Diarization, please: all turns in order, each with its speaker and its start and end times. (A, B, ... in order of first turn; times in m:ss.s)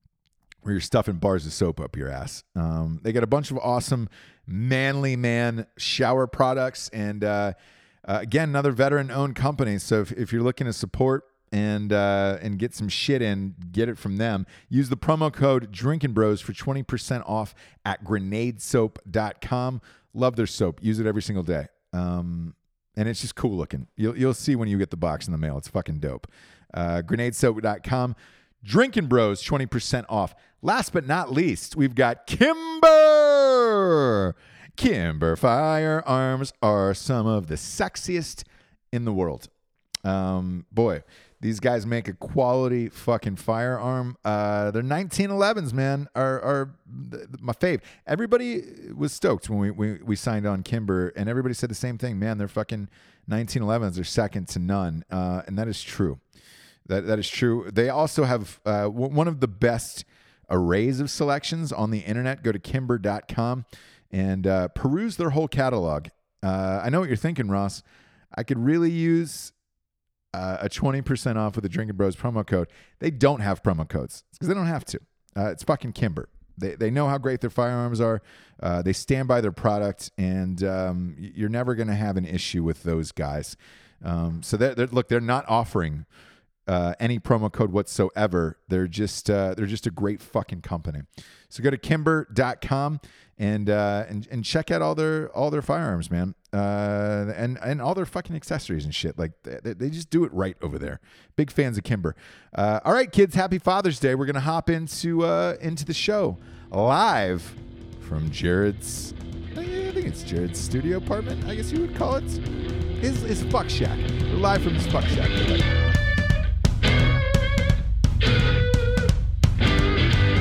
0:00.6-0:39.5 A
0:40.0-0:56.2 A
0:56.8-1:07.8 A
1:08.3-1:09.5 A
1:10.3-1:26.0 A
1:26.7-1:52.4 A
1:53.0-1:55.9 A